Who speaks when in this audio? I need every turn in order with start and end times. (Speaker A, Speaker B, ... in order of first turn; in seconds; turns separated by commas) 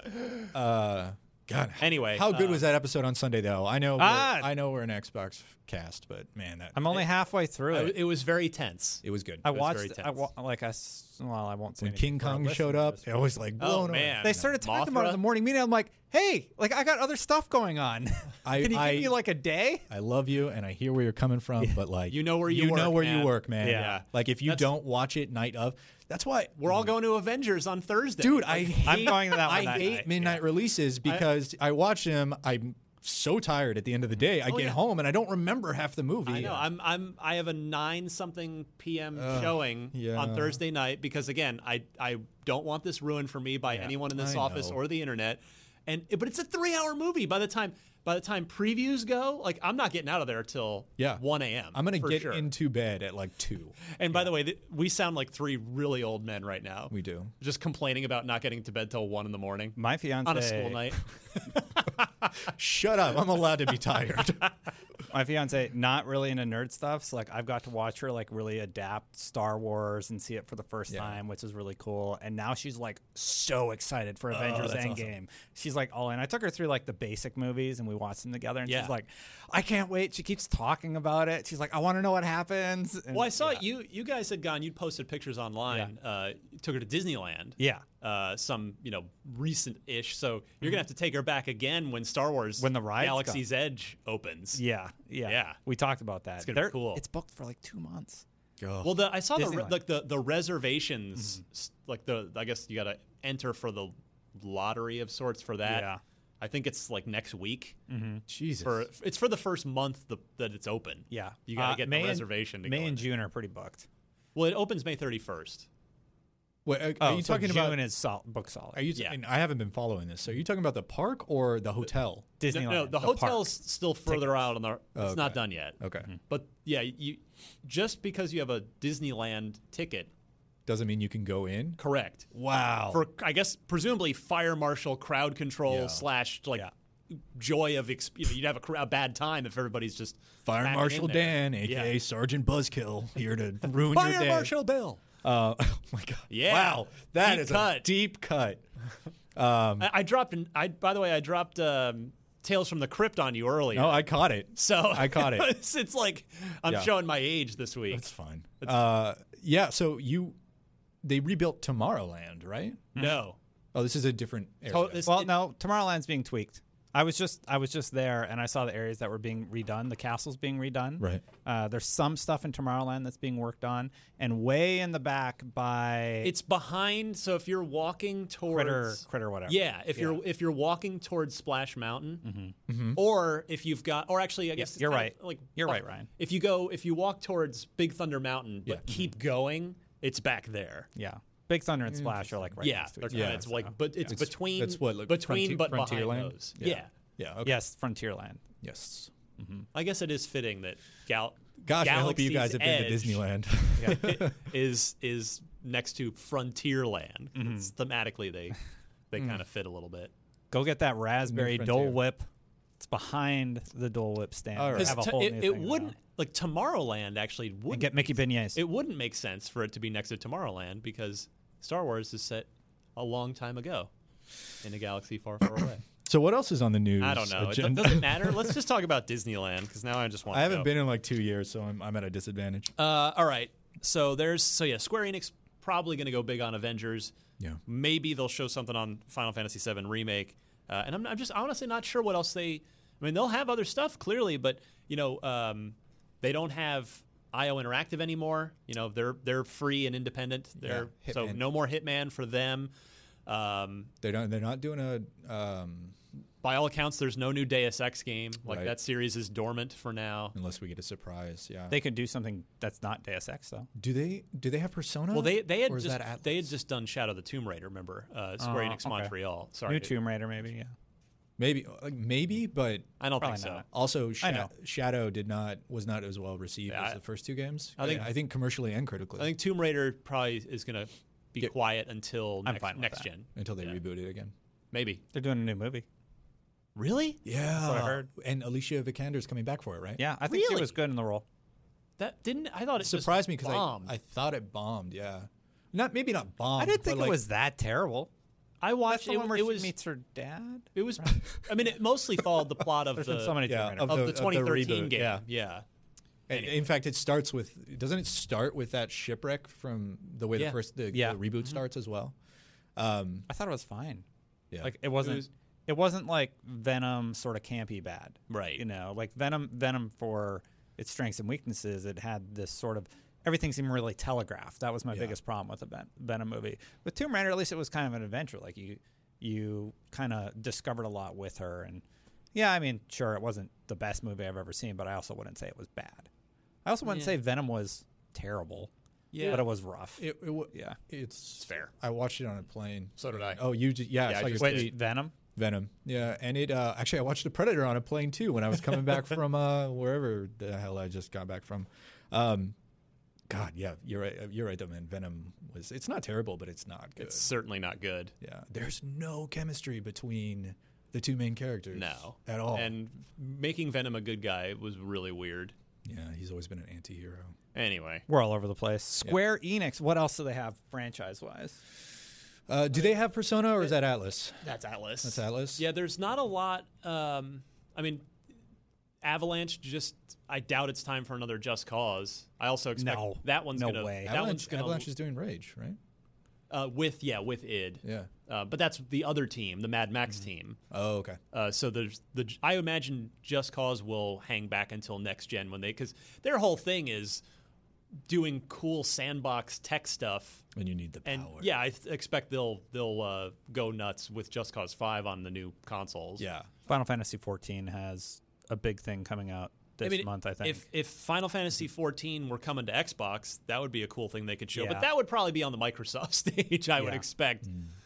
Speaker A: 0.5-7.1, Speaker B: 1.8-2.7, Speaker C: 4.0-4.5, Speaker C: 6.7-8.0, Speaker B: 7.7-10.2, Speaker A: 9.0-9.5, Speaker C: 9.4-13.2, Speaker A: 11.8-14.5, Speaker B: 13.6-15.2, Speaker C: 14.2-19.9, Speaker A: 18.4-19.2, Speaker A: 19.9-26.9, Speaker B: 22.1-24.7, Speaker C: 23.6-24.0, Speaker B: 26.6-30.4, Speaker A: 28.2-36.7, Speaker C: 28.8-30.3, Speaker B: 34.5-34.8, Speaker B: 36.3-52.5, Speaker A: 39.1-40.6, Speaker A: 44.0-44.8, Speaker A: 51.0-53.8, Speaker B: 54.0-62.3, Speaker A: 56.9-57.3, Speaker C: 59.8-60.9, Speaker A: 62.5-64.5, Speaker C: 65.1-83.6, Speaker A: 70.9-71.2, Speaker A: 74.3-75.0, Speaker B: 74.5-74.8, Speaker B: 78.7-78.9, Speaker B: 83.1-94.6, Speaker C: 87.6-87.8, Speaker C: 92.6-93.5, Speaker C: 94.5-98.2, Speaker B: 95.2-95.6, Speaker B: 96.4-97.0, Speaker A: 98.6-99.1, Speaker B: 98.8-105.9, Speaker C: 99.4-99.8, Speaker C: 101.2-101.4, Speaker C: 105.6-106.0, Speaker B: 106.4-107.8, Speaker C: 107.9-108.2, Speaker A: 108.3-108.9, Speaker B: 108.6-113.1, Speaker C: 111.1-113.9, Speaker B: 114.3-115.7, Speaker A: 116.7-117.8, Speaker C: 117.0-118.8, Speaker A: 118.7-122.3, Speaker C: 122.4-124.5, Speaker B: 122.5-130.1, Speaker A: 125.0-126.1, Speaker A: 130.7-131.8, Speaker B: 131.8-132.3, Speaker A: 132.3-133.1, Speaker B: 132.9-141.9, Speaker A: 135.7-136.1, Speaker A: 140.4-144.5, Speaker B: 143.9-145.0, Speaker A: 145.2-148.7, Speaker B: 146.3-147.9, Speaker A: 149.3-149.9, Speaker B: 149.8-158.1, Speaker A: 153.7-155.6, Speaker A: 156.7-156.9, Speaker A: 157.9-160.4, Speaker A: 161.0-162.9, Speaker B: 162.9-163.4, Speaker A: 163.7-165.1, Speaker B: 164.7-165.4, Speaker C: 165.0-176.3, Speaker A: 171.0-171.2, Speaker B: 176.2-182.2, Speaker C: 178.5-180.2, Speaker C: 182.2-182.6, Speaker A: 182.7-183.0, Speaker B: 182.9-190.9, Speaker C: 184.6-186.1, Speaker C: 191.0-194.1, Speaker A: 191.9-192.6, Speaker B: 192.6-196.9, Speaker A: 193.1-197.6, Speaker C: 197.4-198.4, Speaker A: 198.6-199.1, Speaker C: 199.4-199.7, Speaker B: 199.7-203.3, Speaker A: 201.7-204.3, Speaker B: 203.8-208.6, Speaker C: 207.4-207.7, Speaker B: 209.1-210.1, Speaker A: 209.2-209.4, Speaker C: 210.5-212.3, Speaker A: 211.3-212.0, Speaker C: 212.8-216.0, Speaker A: 214.5-215.1, Speaker B: 214.8-223.9, Speaker C: 217.7-218.6, Speaker B: 224.6-225.8, Speaker A: 226.0-228.6, Speaker B: 227.0-230.7, Speaker A: 230.3-232.7, Speaker B: 232.8-237.1, Speaker B: 237.7-252.7, Speaker A: 250.6-251.4, Speaker B: 253.3-253.9, Speaker A: 254.0-256.0, Speaker B: 256.4-260.4, Speaker A: 258.4-258.8, Speaker A: 260.3-261.8, Speaker C: 261.7-263.7, Speaker A: 263.8-266.5, Speaker B: 265.1-270.0, Speaker C: 268.4-269.1, Speaker C: 269.6-270.7, Speaker A: 271.4-272.9, Speaker B: 273.0-273.6, Speaker C: 273.2-273.7, Speaker A: 273.7-279.4, Speaker C: 274.2-274.5, Speaker B: 276.7-277.0, Speaker B: 277.8-278.1, Speaker B: 279.2-283.8, Speaker C: 282.4-283.1, Speaker A: 283.4-284.3, Speaker B: 284.7-285.0, Speaker C: 285.1-285.9, Speaker B: 286.8-287.2, Speaker A: 287.2-290.0, Speaker C: 287.5-288.1, Speaker C: 290.0-291.2, Speaker B: 290.2-290.8, Speaker B: 292.0-293.9, Speaker A: 292.8-297.2, Speaker C: 296.6-298.1, Speaker B: 298.6-299.7, Speaker C: 298.9-301.2, Speaker B: 300.8-305.6, Speaker C: 303.0-304.1, Speaker A: 303.4-305.2, Speaker A: 306.3-312.1, Speaker B: 306.3-306.7, Speaker C: 310.9-311.2, Speaker A: 312.8-313.3, Speaker C: 313.3-314.1, Speaker C: 314.6-331.8, Speaker B: 315.0-315.3, Speaker B: 318.3-318.6, Speaker A: 324.9-325.2, Speaker C: 332.3-336.1, Speaker C: 336.6-340.8, Speaker B: 336.9-337.1, Speaker B: 339.1-339.5, Speaker A: 340.0-344.8, Speaker B: 341.4-341.7, Speaker B: 343.0-344.8, Speaker C: 344.2-345.1, Speaker A: 345.4-352.6, Speaker A: 353.3-357.3, Speaker B: 357.0-358.1, Speaker A: 358.2-362.7, Speaker B: 361.7-365.5, Speaker A: 365.8-367.4, Speaker B: 367.5-368.1, Speaker C: 368.1-371.6, Speaker A: 372.5-374.4, Speaker B: 374.4-378.1, Speaker A: 375.0-375.7, Speaker B: 379.0-384.9, Speaker C: 382.8-384.1, Speaker A: 384.1-385.8, Speaker B: 386.5-390.6, Speaker A: 387.8-388.1, Speaker A: 390.7-391.2, Speaker B: 391.3-397.2, Speaker B: 398.1-400.4, Speaker A: 400.5-401.5, Speaker B: 401.1-406.3, Speaker A: 406.2-406.5, Speaker C: 406.7-410.7, Speaker B: 409.8-417.5, Speaker C: 414.5-414.9, Speaker C: 416.8-417.1, Speaker A: 417.4-417.7